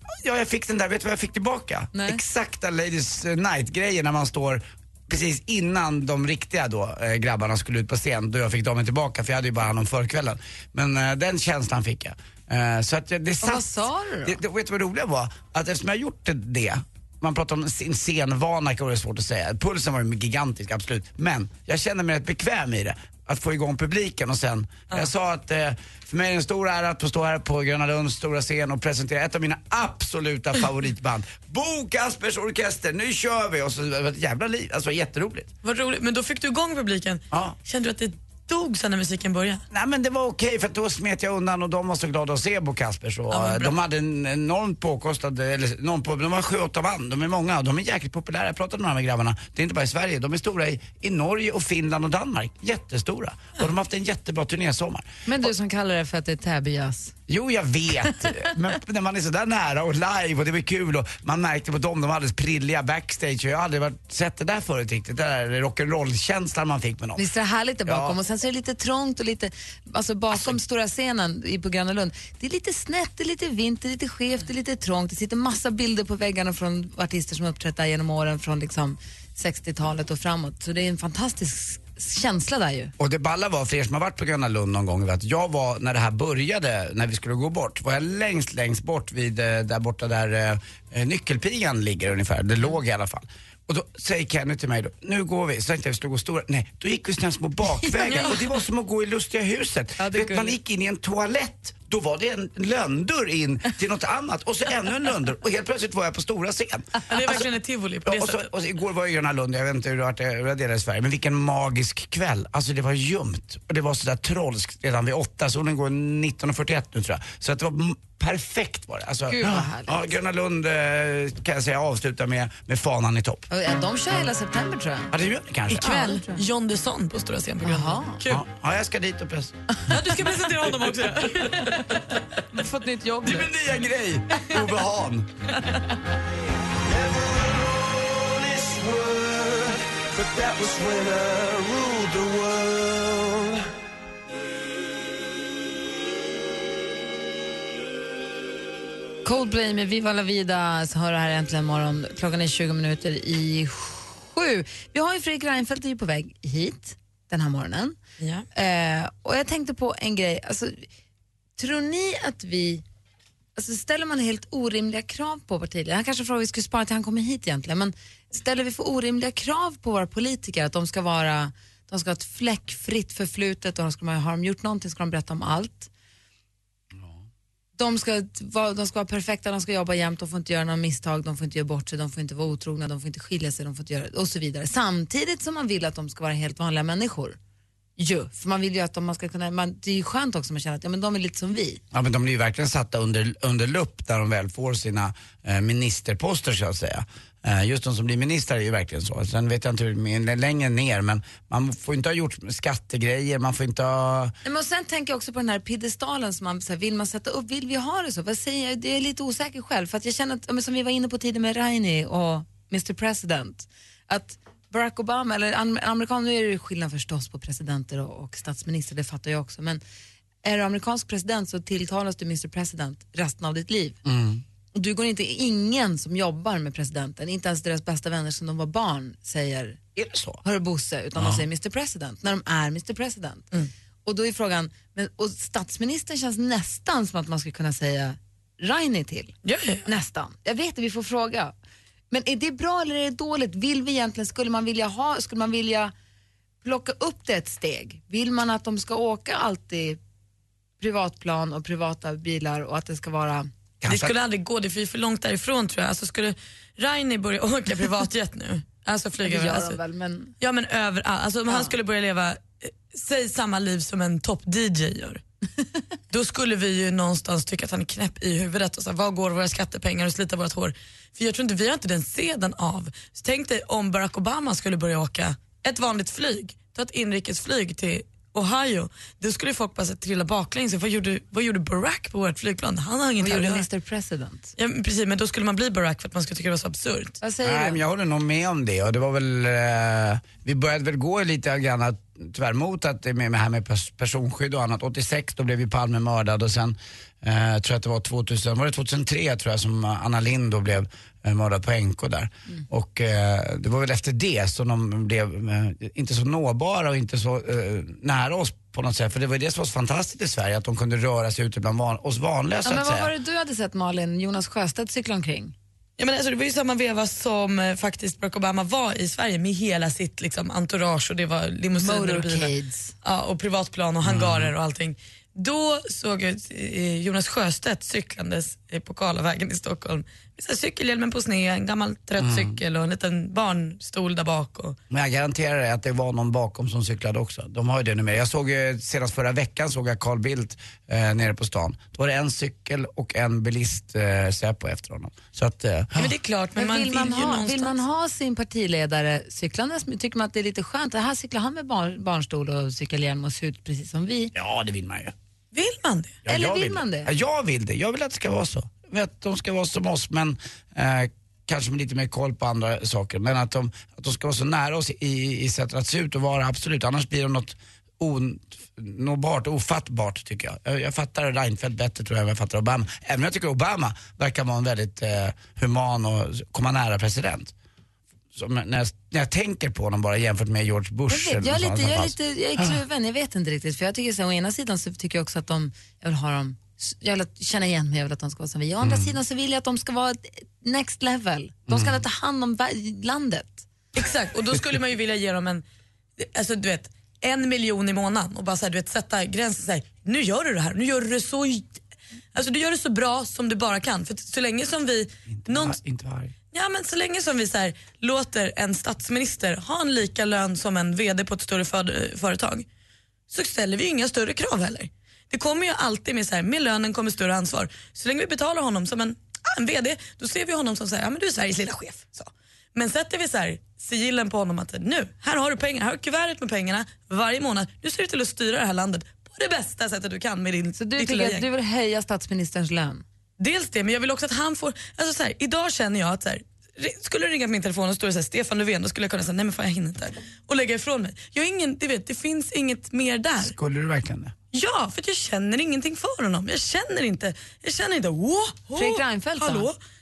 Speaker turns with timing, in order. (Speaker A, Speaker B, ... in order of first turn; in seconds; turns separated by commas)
Speaker A: 0.1-35.5, Speaker B: 1.9-2.2, Speaker B: 13.4-14.4, Speaker C: 35.6-39.6, Speaker A: 37.3-37.6, Speaker A: 39.7-55.5, Speaker C: 43.3-43.8, Speaker B: 55.2-57.1, Speaker A: 57.3-67.2, Speaker B: 67.2-82.9, Speaker A: 67.9-68.2, Speaker A: 70.3-70.6, Speaker A: 83.0-107.4, Speaker C: 98.0-98.4, Speaker B: 100.0-100.5, Speaker C: 107.1-108.4, Speaker A: 108.0-123.5, Speaker B: 119.3-120.1, Speaker B: 123.5-125.1, Speaker A: 125.1-126.0, Speaker C: 125.8-128.4, Speaker B: 125.8-126.4, Speaker B: 127.6-128.2, Speaker A: 128.3-129.5, Speaker C: 129.9-132.0, Speaker B: 131.4-133.5, Speaker A: 133.2-135.3, Speaker D: 136.8-143.7, Speaker B: 149.2-158.0, Speaker C: 158.2-158.5, Speaker B: 158.5-160.9, Speaker B: 161.6-162.8, Speaker B: 163.6-175.9, Speaker B: 177.8-187.4, Speaker B: 188.0-191.8, Speaker A: 191.9-204.3, Speaker B: 204.4-219.8, Speaker B: 220.4-224.0, Speaker A: 224.0-224.4, Speaker B: 224.8-229.8, Speaker A: 230.0-230.4, Speaker B: 230.4-233.5, Speaker A: 231.2-231.4, Speaker B: 234.0-239.3, Speaker C: 239.4-239.9, Speaker B: 239.9-241.5, Speaker B: 242.1-245.9, Speaker B: 246.6-250.0, Speaker B: 250.8-253.5, Speaker A: 253.8-254.1, Speaker C: 253.9-259.8, Speaker B: 259.2-260.3, Speaker C: 260.4-265.2, Speaker B: 261.5-261.7, Speaker C: 266.1-283.6, Speaker B: 283.2-284.5, Speaker C: 284.6-287.2, Speaker B: 287.2-287.8, Speaker A: 287.4-313.1, Speaker B: 312.6-315.5, Speaker C: 316.0-322.5, Speaker B: 321.8-322.9, Speaker C: 323.0-334.8, Speaker A: 324.0-324.5, Speaker A: 332.2-332.6, Speaker A: 334.9-346.1, Speaker C: 346.0-347.8, Speaker B: 346.5-354.3, Speaker A: 354.3-355.1, Speaker C: 355.5-356.2, Speaker A: 356.2-377.5, Speaker B: 356.3-357.1, Speaker A: 378.3-382.8, Speaker B: 381.1-393.7, Speaker A: 388.8-389.1, Speaker A: 391.7-392.0, Speaker C: 393.9-395.6, Speaker C: 396.2-401.8, Speaker C: 402.3-405.8, Speaker A: 405.3-406.3, Speaker C: 406.5-412.7, Speaker C: 413.3-431.5, Speaker B: 430.8-433.0, Speaker C: 433.4-443.5, Speaker A: 443.4-444.3, Speaker C: 444.5-449.8, Speaker B: 448.8-449.7